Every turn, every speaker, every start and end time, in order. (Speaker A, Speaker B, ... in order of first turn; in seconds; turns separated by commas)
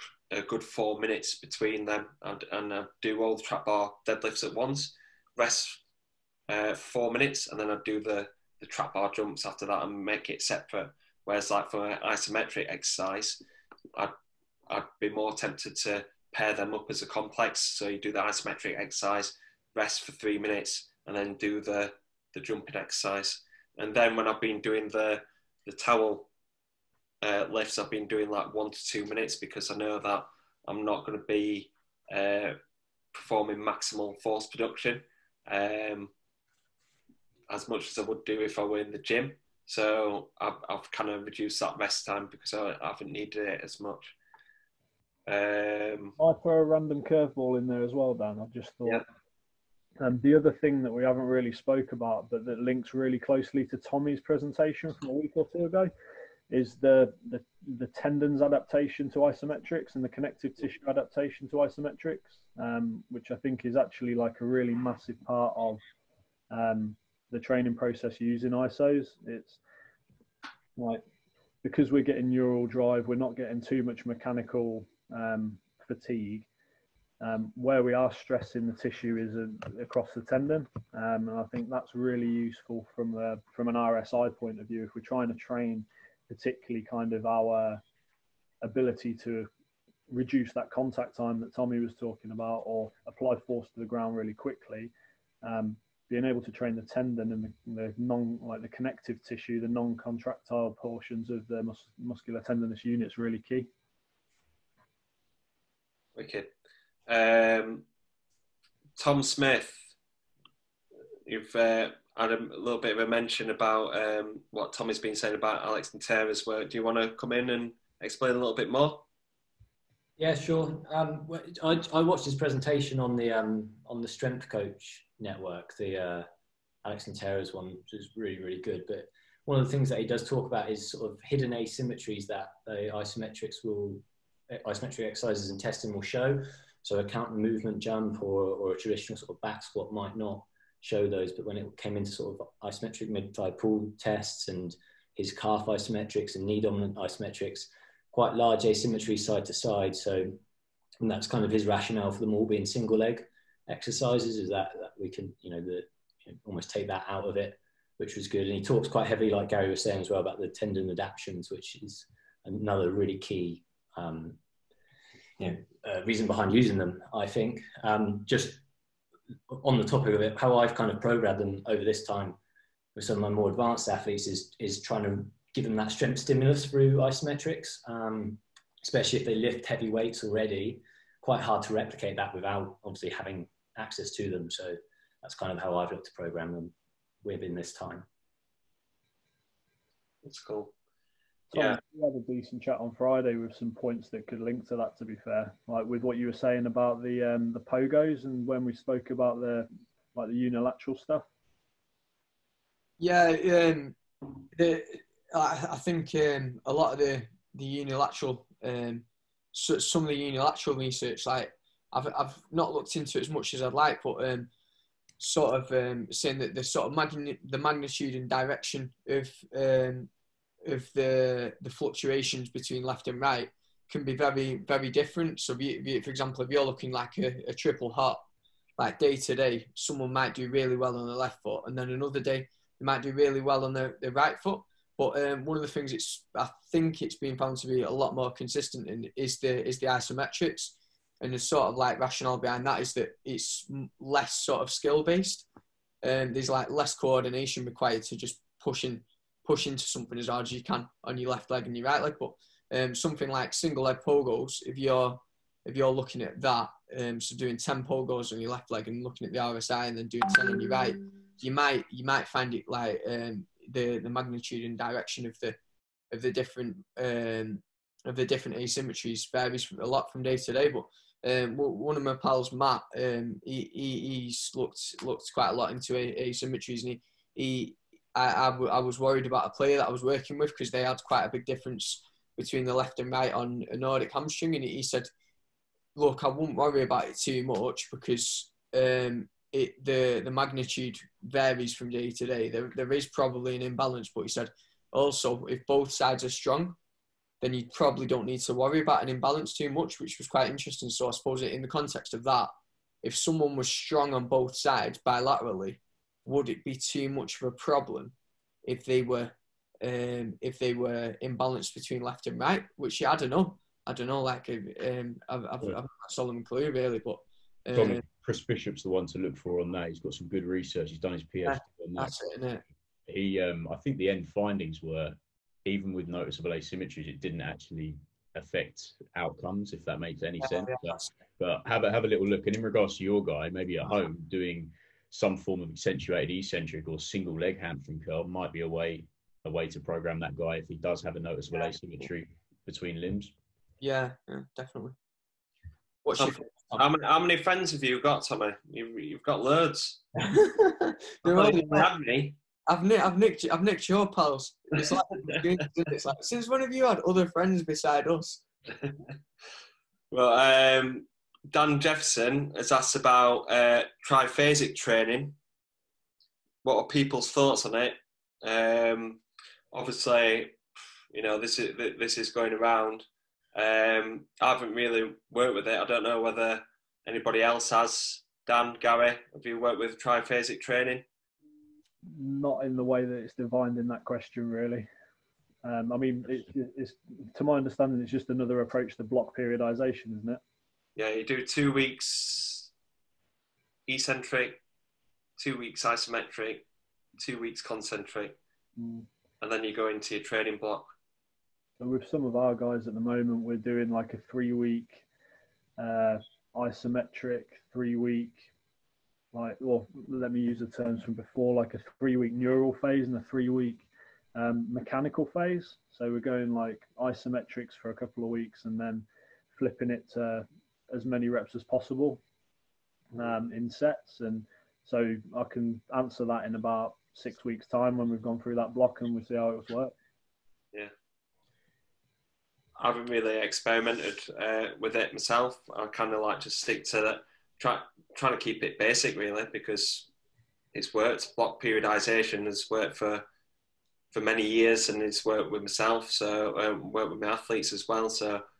Speaker A: 0.3-5.8, Speaker A: 6.5-13.4, Speaker A: 14.7-26.3, Speaker A: 27.2-32.6, Speaker A: 33.1-36.1, Speaker A: 37.5-44.1, Speaker A: 45.3-46.1, Speaker B: 46.2-49.0, Speaker B: 50.0-55.9, Speaker B: 56.5-65.8, Speaker B: 66.5-69.6, Speaker B: 70.8-71.0, Speaker B: 71.6-76.5, Speaker B: 77.2-87.8, Speaker B: 88.6-89.5, Speaker B: 90.1-94.9, Speaker B: 95.4-103.7, Speaker A: 106.2-106.5, Speaker A: 107.1-107.8, Speaker A: 109.0-109.9, Speaker A: 111.3-119.0, Speaker C: 120.2-126.3, Speaker C: 126.8-150.4, Speaker C: 151.0-164.4, Speaker C: 165.4-168.6, Speaker C: 169.5-172.4, Speaker C: 172.9-188.1, Speaker A: 190.2-190.7, Speaker B: 191.5-201.2, Speaker A: 191.5-191.8, Speaker D: 203.0-203.9, Speaker D: 204.5-214.5, Speaker D: 215.2-220.1, Speaker D: 220.6-228.2, Speaker D: 228.8-245.4, Speaker D: 246.0-265.6, Speaker D: 266.1-285.1, Speaker D: 285.9-296.8, Speaker D: 297.4-302.5, Speaker D: 303.0-308.1, Speaker D: 308.6-318.0, Speaker E: 317.7-322.1, Speaker D: 321.4-322.6, Speaker E: 323.1-343.3, Speaker D: 330.4-331.1, Speaker D: 343.8-344.9, Speaker D: 346.0-346.8, Speaker A: 346.1-350.0, Speaker D: 350.2-351.9, Speaker A: 351.2-352.4, Speaker D: 352.7-358.4, Speaker A: 360.1-365.4, Speaker A: 366.6-369.2, Speaker A: 369.7-370.6, Speaker A: 371.1-381.0, Speaker B: 382.1-384.9, Speaker B: 385.6-390.4, Speaker A: 390.9-392.7, Speaker A: 393.9-394.6, Speaker A: 395.4-396.6, Speaker A: 397.2-398.4, Speaker B: 398.8-399.1, Speaker A: 399.4-400.9, Speaker B: 401.8-405.0, Speaker B: 405.8-408.5, Speaker B: 409.3-422.2, Speaker B: 423.1-429.9, Speaker A: 432.8-440.1, Speaker A: 440.7-443.2, Speaker A: 444.1-448.4